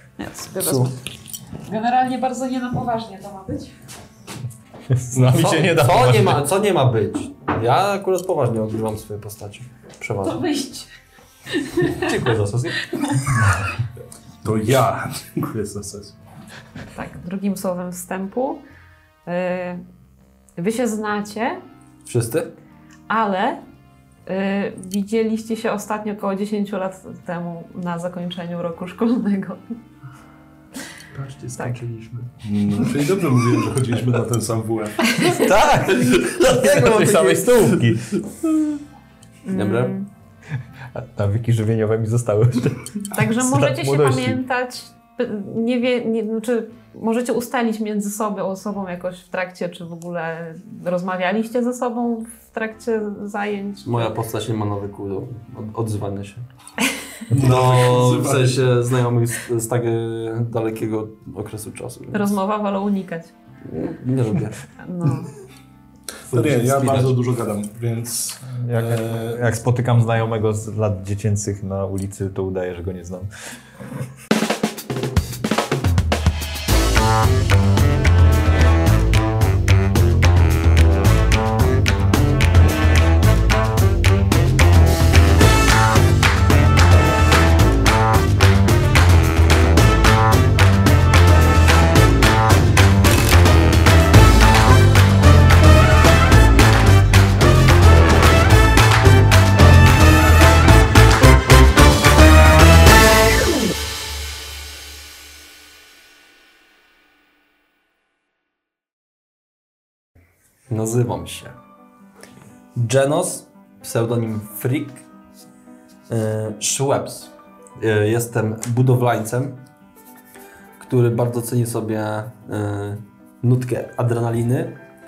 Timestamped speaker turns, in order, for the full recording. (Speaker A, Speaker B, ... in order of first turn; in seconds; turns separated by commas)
Speaker A: 0.2-0.9, Speaker B: 0.6-0.9, Speaker A: 1.6-3.8, Speaker C: 4.9-6.5, Speaker D: 5.1-5.7, Speaker B: 5.3-10.4, Speaker A: 10.2-10.9, Speaker A: 11.5-12.1, Speaker B: 11.8-12.8, Speaker D: 14.4-16.2, Speaker A: 16.9-18.6, Speaker A: 19.2-19.8, Speaker A: 20.6-21.6, Speaker B: 22.1-22.5, Speaker A: 23.1-23.6, Speaker A: 24.2-29.6, Speaker B: 31.1-32.3, Speaker D: 32.4-35.1, Speaker A: 35.0-35.5, Speaker B: 35.2-37.9, Speaker C: 36.2-38.2, Speaker A: 39.5-40.1, Speaker B: 39.5-39.9, Speaker C: 40.9-44.4, Speaker A: 43.1-54.1, Speaker B: 53.8-56.5, Speaker D: 57.3-58.6, Speaker B: 57.3-62.3, Speaker A: 62.1-63.3, Speaker B: 63.6-64.6, Speaker A: 64.8-65.3, Speaker B: 66.3-67.2, Speaker D: 66.3-69.5, Speaker C: 68.6-73.3, Speaker B: 110.7-111.6, Speaker B: 112.8-115.0, Speaker B: 116.1-119.6, Speaker B: 120.8-124.8